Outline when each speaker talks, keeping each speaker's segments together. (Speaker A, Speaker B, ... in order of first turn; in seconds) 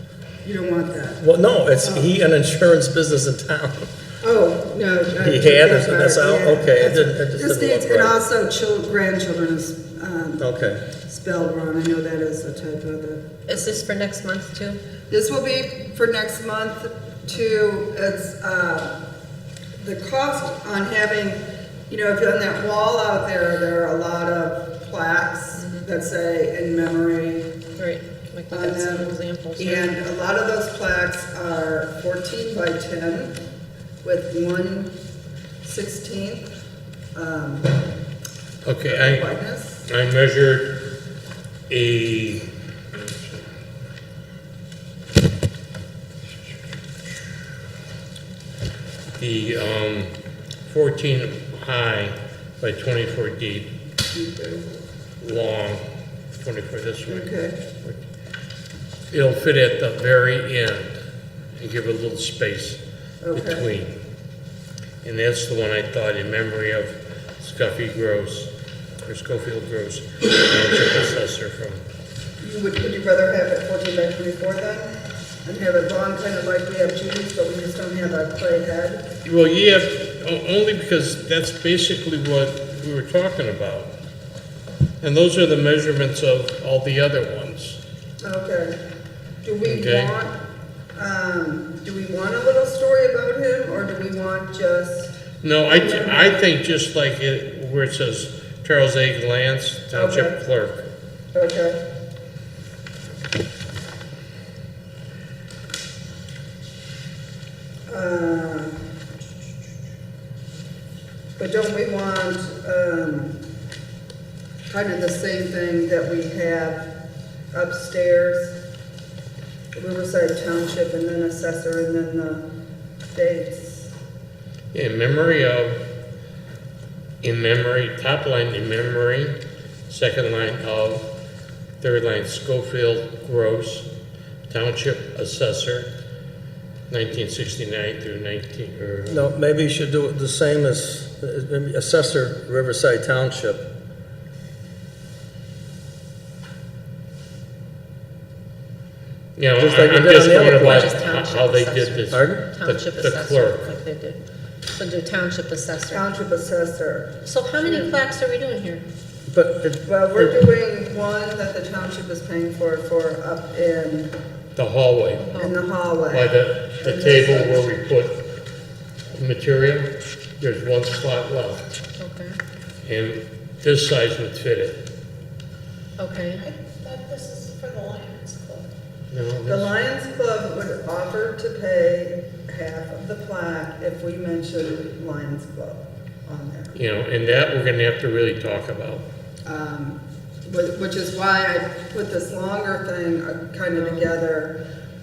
Speaker A: 0.5-1.2, 4.2-10.4, 11.1-13.3, 15.1-19.0, 19.8-27.6, 28.5-33.4, 34.0-35.0, 35.6-36.5, 37.1-37.8, 38.9-39.8, 54.1-54.8, 57.1-57.6, 63.2-63.7, 72.4-79.1, 88.2-88.8, 89.4-90.4, 91.0-95.2, 95.7-96.5, 99.9-100.4, 101.3-101.8, 107.9-108.8, 111.4-113.4, 114.7-117.0, 117.5-118.6, 119.7-122.5, 123.1-123.9, 155.9-157.2, 159.8-164.2, 165.4-167.6, 179.5-186.8, 189.4-194.6
Speaker B: 1.2-3.9, 5.2-8.2, 10.4-10.8, 139.1-143.7, 149.6-150.9, 152.1-152.4, 159.3-160.3
Speaker C: 13.5-14.8, 25.6-25.9, 27.8-29.9, 150.5-156.1, 157.2-158.8, 165.3-165.6, 172.0-172.4, 176.0-178.6
Speaker D: 38.6-39.3, 39.9-40.9, 41.7-43.4, 49.2-50.1, 50.7-53.7, 55.2-58.0, 59.1-61.0, 61.6-62.8, 63.3-64.0, 65.0-68.5, 69.0-71.8, 79.2-83.9, 85.0-87.8, 89.6-90.1, 95.4-100.9, 124.7-125.8, 127.2-129.4, 129.9-131.1, 131.8-133.9, 134.5-135.9, 136.9-139.3, 149.4-153.7, 164.6-165.4, 166.1-168.3, 169.1-171.7, 172.8-174.9, 179.1-179.7, 186.7-189.1